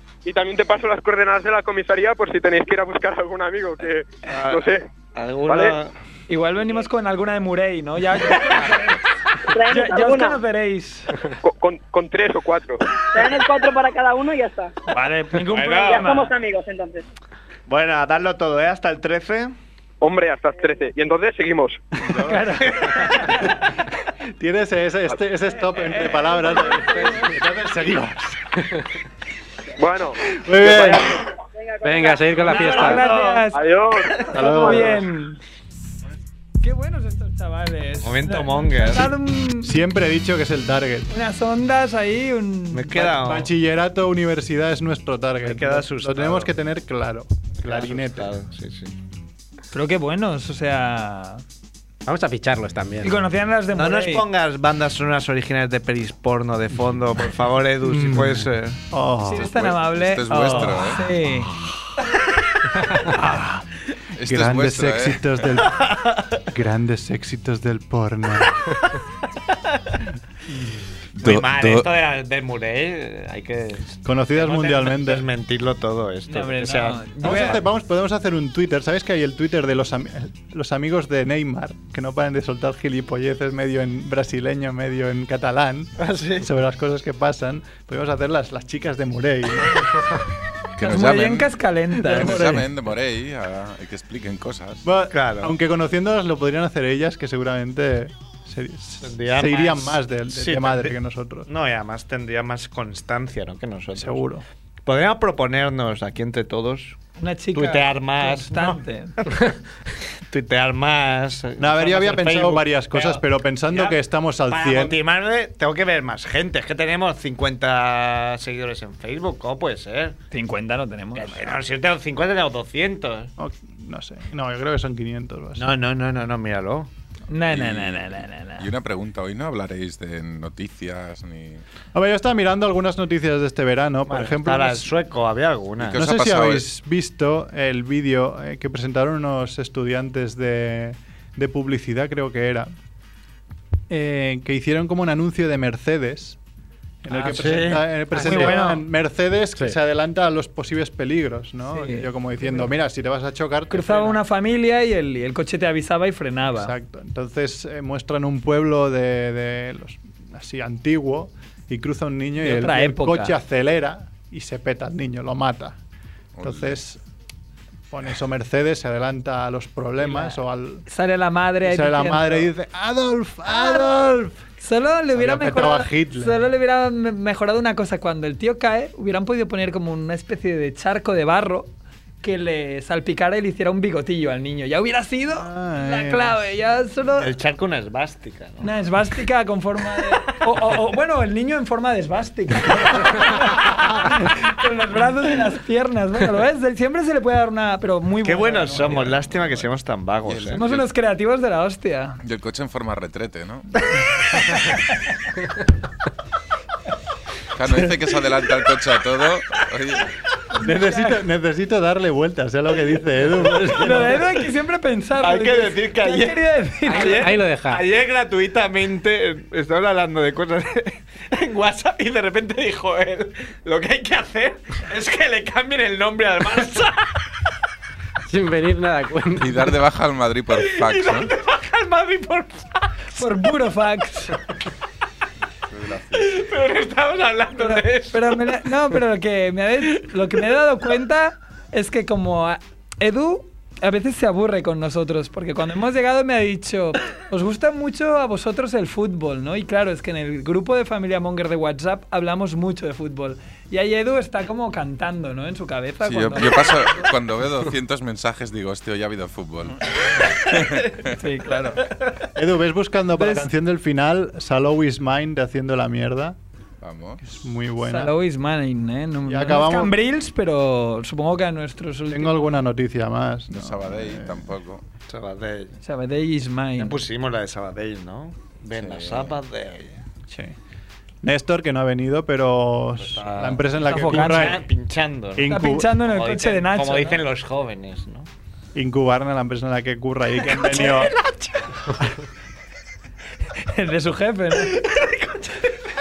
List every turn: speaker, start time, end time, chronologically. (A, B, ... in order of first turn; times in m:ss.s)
0:00.2-0:04.9 A
0:04.3-0:04.6 B
0:05.2-0:05.9 B
0:05.5-0:05.8 A
0:06.3-0:09.0 C
0:09.5-0:10.4 D
0:09.6-0:11.2 C
0:11.4-0:12.8 A
0:13.1-0:14.7 D
0:14.9-0:16.3 C
0:15.5-0:16.1 B
0:15.8-0:17.0 D
0:17.7-0:19.5 B
0:20.0-0:21.8 A
0:22.2-0:23.2 B
0:22.2-0:23.5 C
0:24.4-0:28.7 E
0:25.9-0:27.4 C
0:29.8-0:30.2 A
0:30.3-0:31.1 E
0:31.5-0:32.9 D
0:31.8-0:33.0 F
0:32.4-0:33.7 C
0:32.6-0:33.4 B
0:33.5-0:34.3 A
0:34.3-0:35.0 E
0:34.4-0:35.4 C
0:36.6-0:39.8 C
0:38.0-0:39.1 B
0:39.6-0:41.1 E
0:41.1-0:43.2 C
0:42.7-0:43.5 B
0:43.1-0:48.3 E
0:45.5-0:46.5 B
0:47.6-0:49.0 B
0:49.7-0:51.4 C
0:52.1-0:53.2 F
0:53.0-0:54.2 C
0:53.7-0:58.8 B
0:57.8-0:59.5 E
0:59.3-1:01.5 C
0:59.3-1:01.1 G
1:03.1-1:03.6 E
1:04.2-1:05.3 G
1:04.2-1:08.7 E
1:05.7-1:06.4 B
1:11.2-1:11.9 G
1:11.2-1:17.6 B
1:14.0-1:15.3 E
1:16.3-1:17.6 C
1:17.2-1:29.8 E
1:26.0-1:26.5 B
1:30.8-1:34.8 G
1:30.8-1:32.4 C
1:32.1-1:32.7 E
1:34.8-1:41.5 E
1:35.1-1:35.5 B
1:39.0-1:40.9 B
1:41.5-1:44.2 B
1:44.0-1:44.4 E
1:44.9-1:47.0 B
1:47.2-1:49.2 C
1:47.6-1:49.6 B
1:50.3-2:00.2 B
1:51.6-1:55.0 E
2:00.3-2:01.6 C
2:01.2-2:03.3 B
2:03.4-2:05.7 E
2:05.6-2:06.9 B
2:07.3-2:08.7 C
2:07.5-2:11.6 G
2:11.9-2:14.9 E
2:14.1-2:16.0 B
2:15.8-2:16.7 G
2:15.9-2:22.7 E
2:23.9-2:26.4 E
2:27.0-2:34.2 E
2:27.1-2:28.8 C
2:27.2-2:27.9 B
2:28.1-2:28.6 F
2:31.7-2:32.7 C
2:33.7-2:36.7 C
2:36.5-2:45.8 E
2:42.4-2:43.4 C
2:46.4-2:46.8 G
2:46.4-2:47.0 E
2:47.9-2:50.9 E
2:50.0-2:52.5 C
2:51.6-2:54.4 E
2:53.5-2:54.0 C
2:54.6-3:07.3 C
2:55.2-2:56.4 E
3:05.3-3:06.4 E
3:07.2-3:08.7 B
3:08.6-3:19.1 C
3:18.2-3:20.6 B
3:18.8-3:19.6 G
3:20.3-3:20.9 G
3:20.5-3:22.2 C
3:22.2-3:23.7 G
3:24.3-3:24.9 C
3:27.6-3:30.1 G
3:30.6-3:34.2 E
3:33.4-3:34.1 B
3:33.8-3:37.4 C
3:35.2-3:47.1 B
3:37.0-3:37.8 F
3:48.3-3:49.8 F
3:49.4-3:51.3 G
3:50.5-3:53.0 B
3:53.2-3:54.4 C
3:55.7-3:56.3 G
3:56.1-3:58.6 B
3:57.6-4:17.1 C
4:16.0-4:21.1 G
4:21.1-4:21.9 C
4:22.4-4:26.4 E
4:23.2-4:23.5 C
4:26.8-4:27.2 G
4:27.2-4:28.1 E
4:27.8-4:32.6 C
4:29.3-4:30.0 E
4:32.1-4:34.5 E
4:33.5-4:34.8 G
4:35.1-4:35.8 B
4:35.8-4:37.0 C
4:36.8-4:40.0 B
4:38.7-4:39.4 G
4:41.2-4:44.6 E
4:43.0-4:48.3 B
4:43.8-4:44.6 C
4:45.4-4:45.9 E
4:45.5-4:47.2 C
4:48.8-4:51.1 E
4:50.7-4:51.3 C
4:53.6-4:54.8 C
4:54.7-4:55.7 B